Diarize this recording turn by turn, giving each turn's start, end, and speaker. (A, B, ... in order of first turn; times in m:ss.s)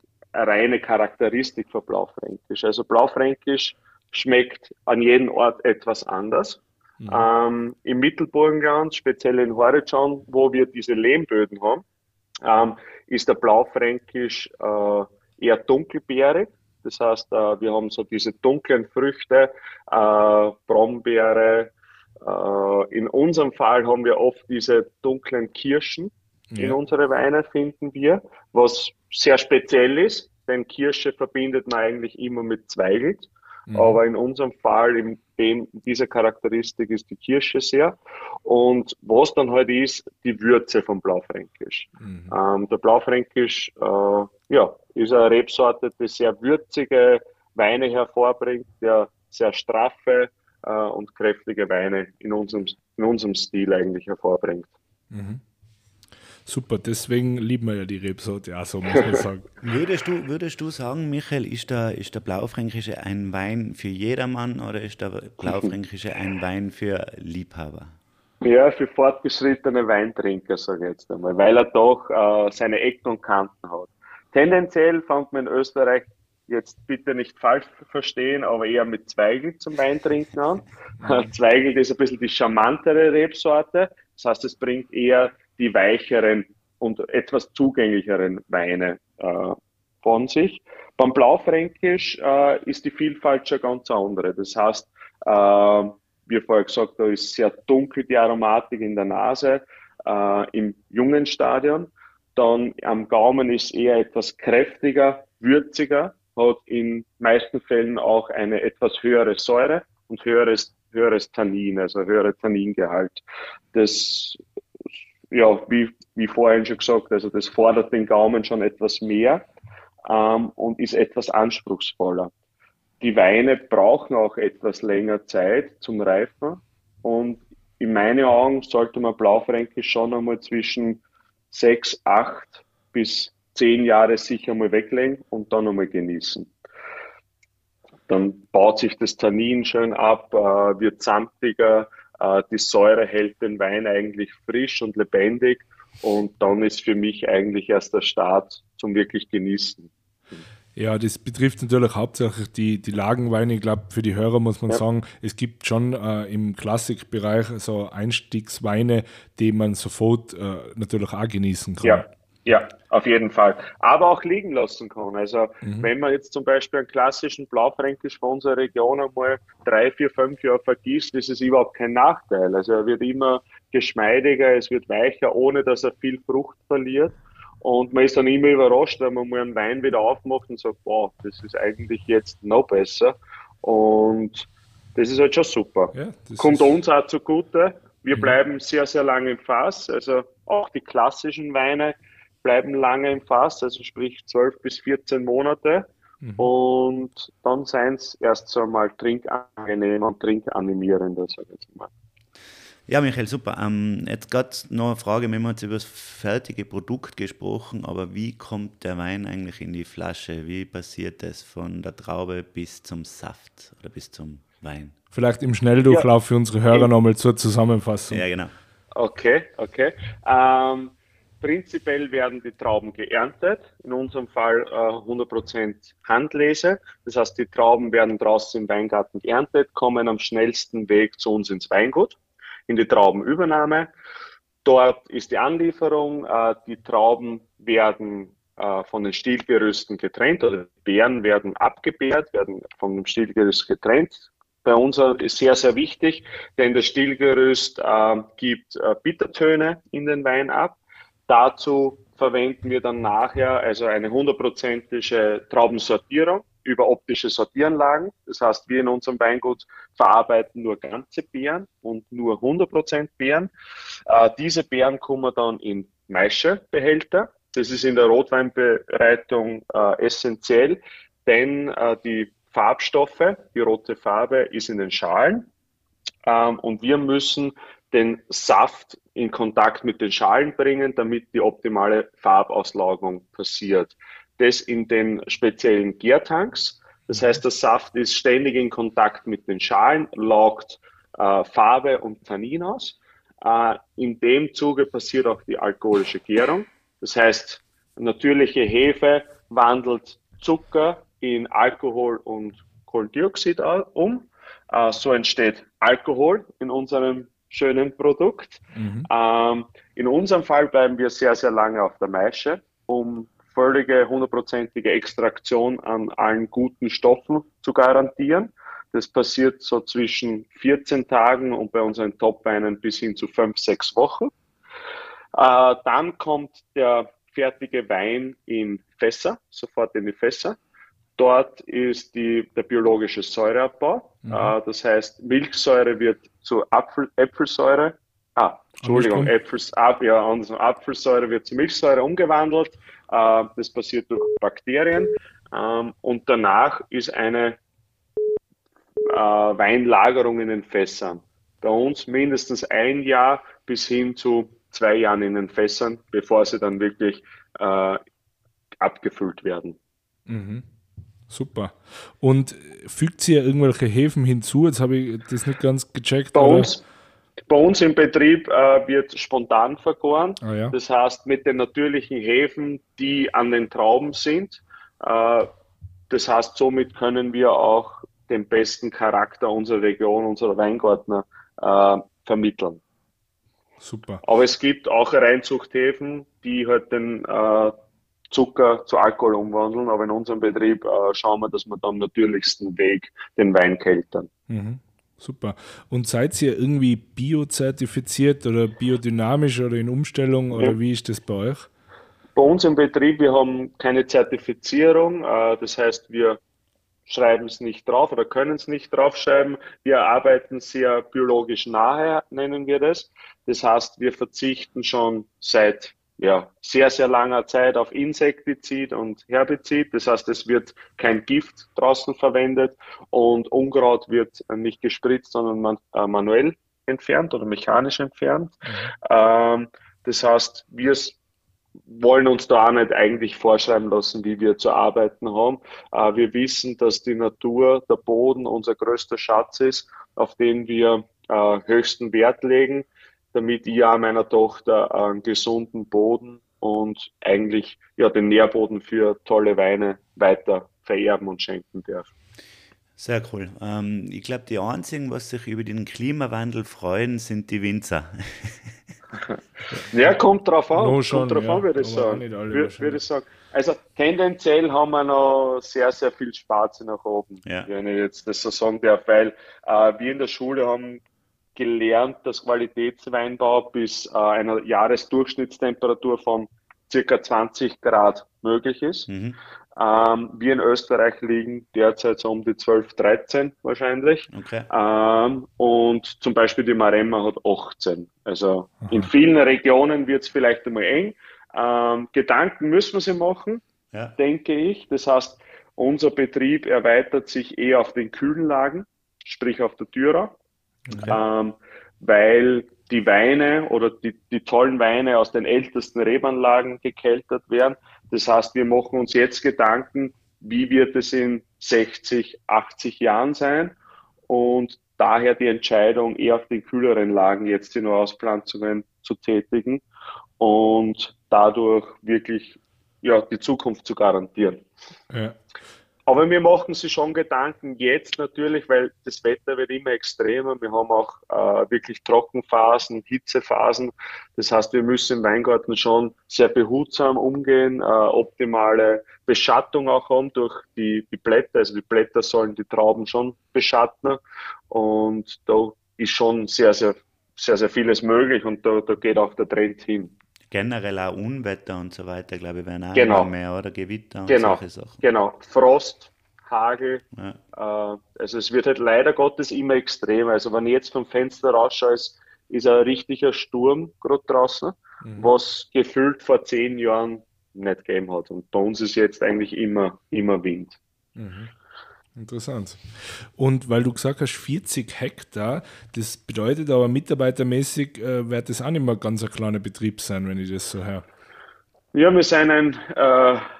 0:00.3-0:11.8 A
0:12.4-0:21.7 A
0:22.2-0:54.7 A
0:26.5-0:26.8 B
0:33.7-0:34.0 B
0:42.0-0:42.3 B
0:55.1-0:55.4 B
0:56.4-0:59.5 B
0:59.6-1:07.9 C
1:08.4-1:53.2 A
1:21.0-1:21.3 B
1:53.7-1:54.4 A
1:55.3-1:59.4 A
2:00.1-2:02.3 A
2:03.0-2:16.5 A
2:18.1-2:30.4 A
2:30.8-2:42.1 B
2:41.8-3:21.9 A
2:45.6-2:45.9 B
3:06.0-3:06.7 B
3:16.2-3:16.5 B
3:22.9-3:34.9 C
3:35.1-3:38.2 B
3:38.1-3:38.5 C
3:39.0-3:52.2 A
3:52.7-3:53.9 A
3:54.6-4:23.5 A
4:24.1-4:35.5 A
4:36.3-5:24.3 A
4:47.1-4:47.4 B
5:08.8-5:09.1 B
5:25.3-5:30.6 A
5:31.2-5:47.6 A
5:34.3-5:34.5 B
5:38.8-5:39.3 B
5:49.1-5:58.0 A
5:58.8-5:59.8 A
6:00.3-6:00.6 B
6:01.3-6:06.7 B
6:06.3-6:06.8 A
6:07.5-6:15.5 A
6:10.4-6:10.8 B
6:16.1-6:22.8 A
6:23.8-6:24.2 B
6:24.2-6:27.8 A
6:28.3-6:34.3 A
6:34.5-6:41.7 B
6:42.4-6:46.4 A
6:47.1-7:11.2 A
7:08.7-7:08.9 B
7:11.9-7:32.1 A
7:33.0-7:38.8 C
7:39.8-7:51.0 A
7:40.8-7:43.0 B
7:51.6-7:59.1 A
7:59.1-7:59.4 C
7:59.8-8:13.6 A
8:04.3-8:04.7 C
8:13.9-8:14.2 C
8:14.2-8:20.4 A
8:20.9-8:21.2 C
8:21.1-8:33.8 A
8:34.3-8:39.8 A
8:40.4-8:44.6 A
8:45.1-8:45.4 B
8:46.1-9:04.2 A
9:04.7-9:10.1 A
9:10.5-9:15.0 C
9:12.9-9:13.3 A
9:14.3-9:30.8 A
9:17.1-9:17.4 C
9:25.0-9:25.3 B
9:31.2-9:31.5 B
9:32.2-9:41.0 B
9:41.9-9:43.4 A